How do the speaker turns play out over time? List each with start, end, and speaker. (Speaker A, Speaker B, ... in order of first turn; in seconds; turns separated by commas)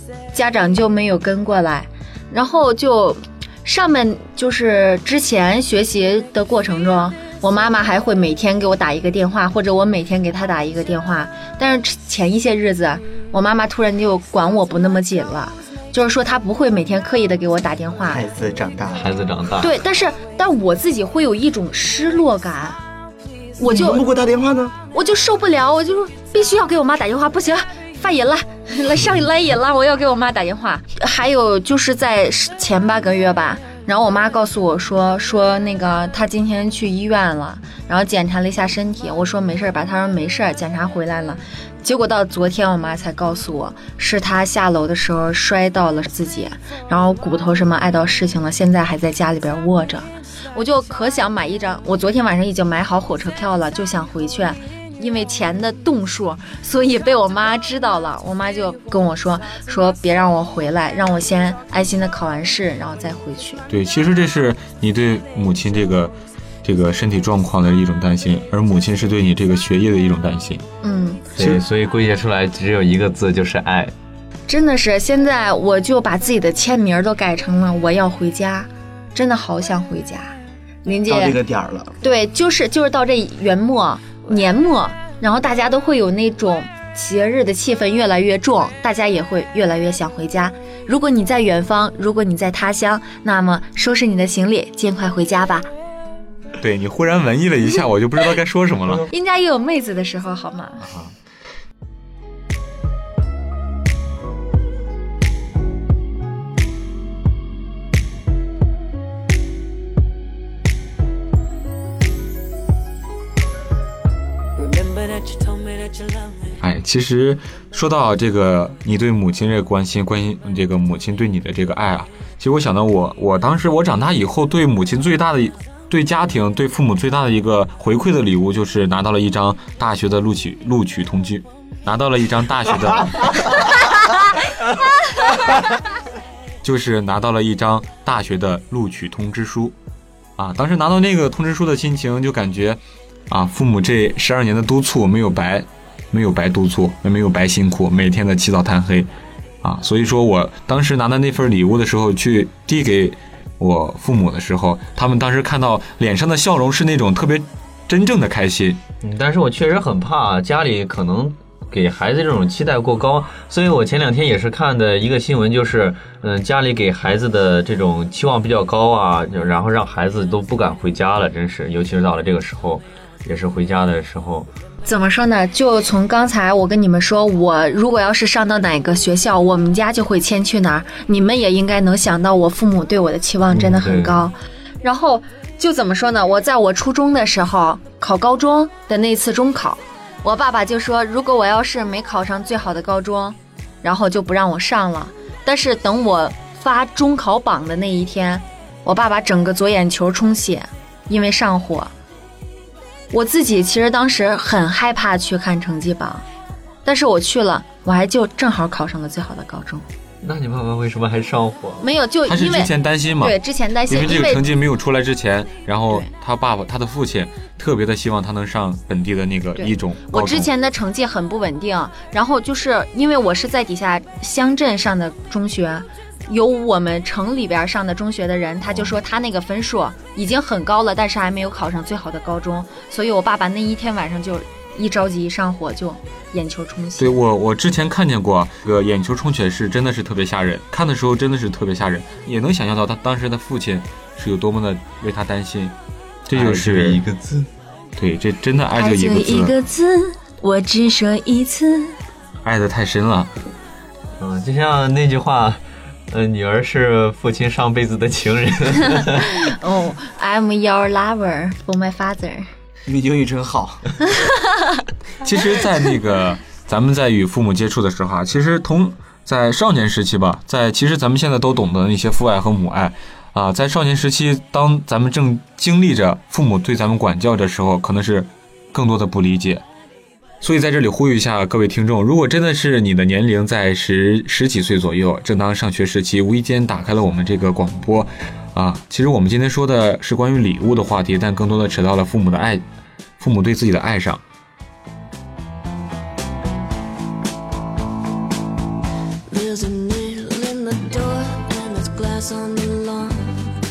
Speaker A: 0.3-18.2, Speaker B: 18.1-19.2, Speaker C: 19.0-19.8, Speaker A: 19.6-22.8, Speaker A: 23.6-24.0, Speaker B: 23.6-24.8, Speaker A: 24.9-63.6, Speaker D: 63.7-66.1, Speaker D: 66.6-70.7, Speaker A: 70.8-71.2, Speaker D: 71.4-71.6, Speaker C: 71.4-73.9, Speaker A: 74.5-81.4, Speaker B: 81.1-82.0, Speaker A: 82.0-95.7, Speaker D: 96.6-99.1, Speaker A: 99.1-100.9, Speaker D: 100.8-101.1, Speaker E: 114.6-116.5, Speaker D: 116.6-133.6, Speaker D: 136.6-139.8, Speaker D: 140.4-149.1, Speaker D: 149.6-158.8, Speaker C: 159.0-174.5, Speaker A: 174.8-201.9, Speaker C: 183.5-184.3, Speaker A: 203.1-206.2, Speaker A: 206.8-209.8, Speaker C: 210.2-211.8, Speaker A: 211.8-214.5, Speaker D: 212.3-220.5, Speaker A: 219.6-237.2, Speaker D: 228.7-229.0, Speaker D: 237.0-245.8, Speaker D: 246.3-247.0, Speaker C: 246.3-247.5, Speaker D: 248.0-249.6, Speaker A: 248.8-252.0, Speaker D: 252.4-253.3, Speaker C: 254.2-259.3, Speaker A: 259.2-262.5, Speaker B: 262.9-264.0, Speaker A: 264.2-264.8, Speaker D: 265.2-279.6, Speaker D: 280.4-292.6, Speaker D: 293.2-294.2, Speaker E: 299.3-303.5